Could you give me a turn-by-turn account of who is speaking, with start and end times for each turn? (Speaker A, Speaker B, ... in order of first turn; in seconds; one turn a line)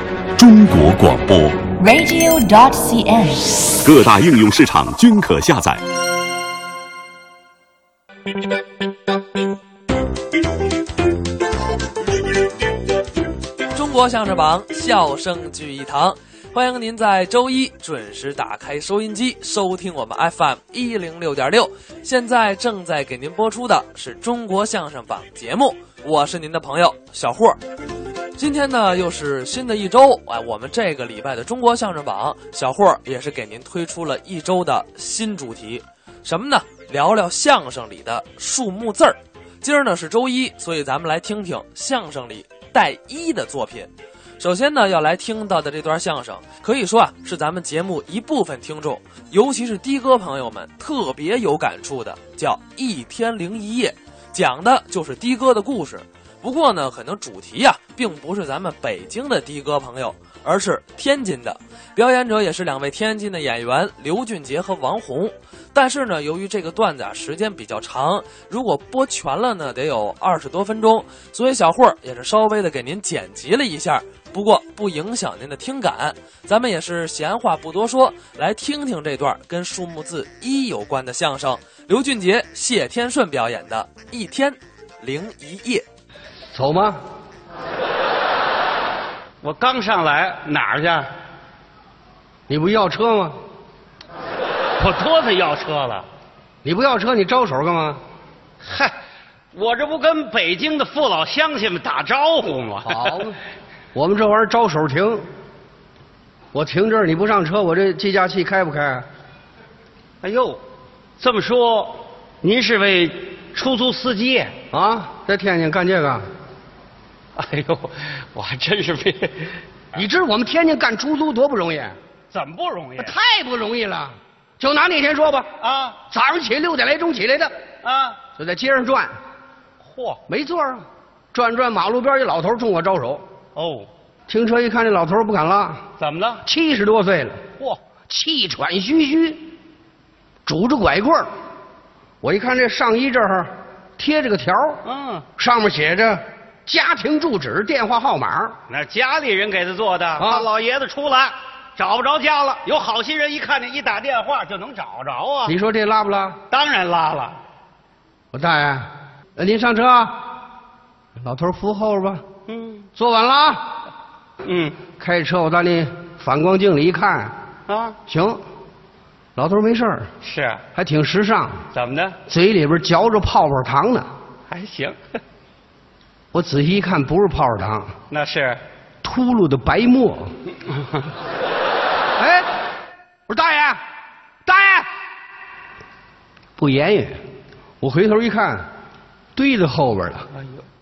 Speaker A: 0.4-1.7
Speaker B: 1.8-3.7
Speaker A: 3.8-5.8
Speaker C: 13.7-27.6
Speaker C: 28.4-85.8
Speaker D: 86.5-87.0
Speaker E: 89.4-91.1
Speaker D: 92.5-93.3
Speaker E: 94.8-96.1
Speaker D: 96.6-98.0
Speaker E: 98.6-98.9
Speaker E: 99.5-103.2
Speaker D: 102.9-103.4
Speaker D: 103.9-105.3
Speaker D: 106.5-109.1
Speaker E: 110.2-110.6
Speaker E: 111.2-114.5
Speaker D: 114.7-116.3
Speaker E: 117.4-119.5
Speaker D: 119.9-122.0
Speaker E: 122.3-123.2
Speaker D: 123.0-125.5
Speaker E: 125.6-126.0
Speaker D: 126.1-127.5
Speaker E: 127.8-128.2
Speaker D: 128.4-129.1
Speaker E: 129.8-130.2
Speaker D: 130.3-133.2
Speaker E: 133.6-133.9
Speaker D: 134.3-135.8
Speaker E: 136.0-136.4
Speaker D: 136.4-137.4
Speaker D: 138.1-139.4
Speaker D: 140.5-141.3
Speaker D: 142.2-144.8
Speaker E: 144.8-145.3
Speaker D: 145.4-148.6
Speaker E: 148.7-155.6
Speaker D: 150.2-150.5
Speaker D: 155.5-156.4
Speaker E: 156.5-157.4
Speaker D: 158.3-160.2
Speaker D: 161.2-162.2
Speaker E: 162.5-162.9
Speaker D: 163.0-163.6
Speaker E: 164.4-164.8
Speaker D: 165.0-167.3
Speaker E: 167.7-168.0
Speaker D: 168.1-168.4
Speaker D: 169.4-170.1
Speaker E: 170.2-170.6
Speaker D: 170.8-171.6
Speaker E: 171.7-172.2
Speaker D: 172.3-174.1
Speaker E: 174.5-175.0
Speaker D: 176.3-177.9
Speaker E: 178.1-178.6
Speaker D: 179.0-180.3
Speaker D: 182.2-182.5
Speaker D: 183.3-183.8
Speaker D: 184.4-184.9
Speaker D: 186.6-187.2
Speaker D: 187.8-188.7
Speaker D: 189.3-190.3